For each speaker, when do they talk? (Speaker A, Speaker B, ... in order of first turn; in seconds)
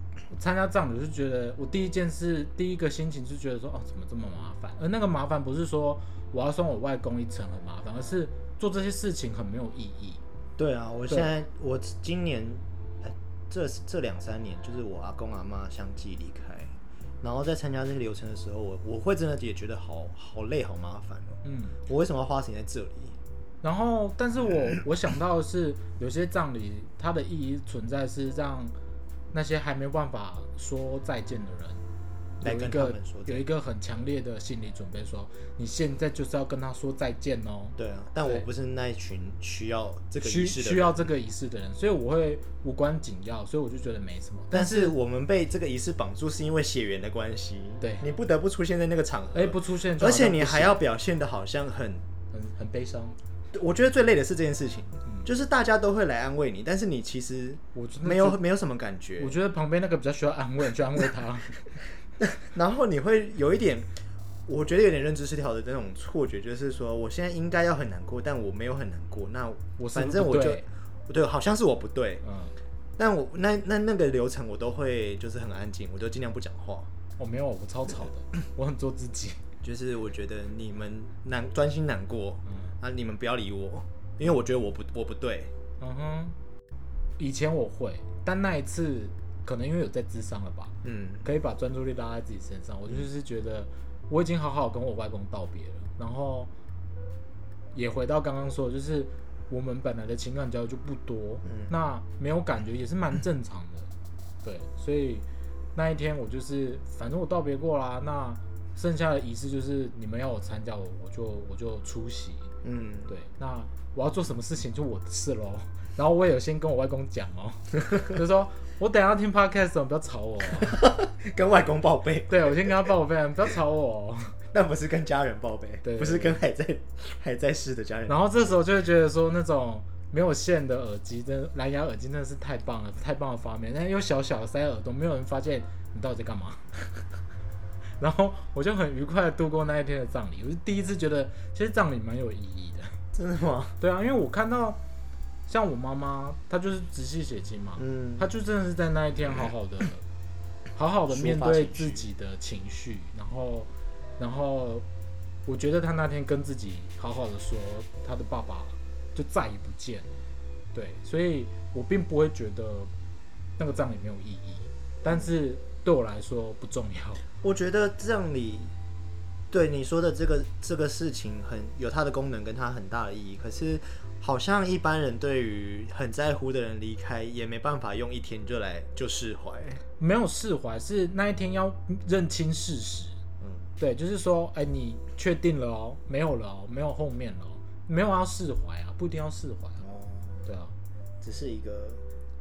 Speaker A: 0.3-10.2, 21.4-21.8, 23.6-28.8, 29.3-31.8, 32.4-38.5, 40.2-44.9, 49.3-50.8, 52.3-53.2, 57.8-58.4, 59.2-61.6, 69.8-70.7, 72.2-72.6, 77.2-79.4, 85.8-86.4, 87.2-96.5, 97.7-103.9, 104.4-112.5, 113.1-120.9, 122.3-124.4, 125.8-126.4, 128.1-137.0, 138.0-143.0, 143.8-144.8, 145.5-150.0, 150.8-154.9, 155.5-160.1, 160.7-162.9, 163.6-167.2, 180.0-183.2, 183.8-189.8, 190.5-190.7
Speaker B: 10.6-23.2, 32.4-33.4, 37.8-41.1, 44.5-52.1, 53.5-59.4, 62.2-72.2, 73.0-76.9, 79.6-85.5, 90.8-91.3, 101.5-101.7, 112.6-113.1, 120.6-122.7, 124.5-128.2, 143.1-143.8, 147.8-148.3, 151.1-152.1, 165.1-165.3, 167.4-168.7, 169.5-179.8, 189.8-190.5, 191.2-192.0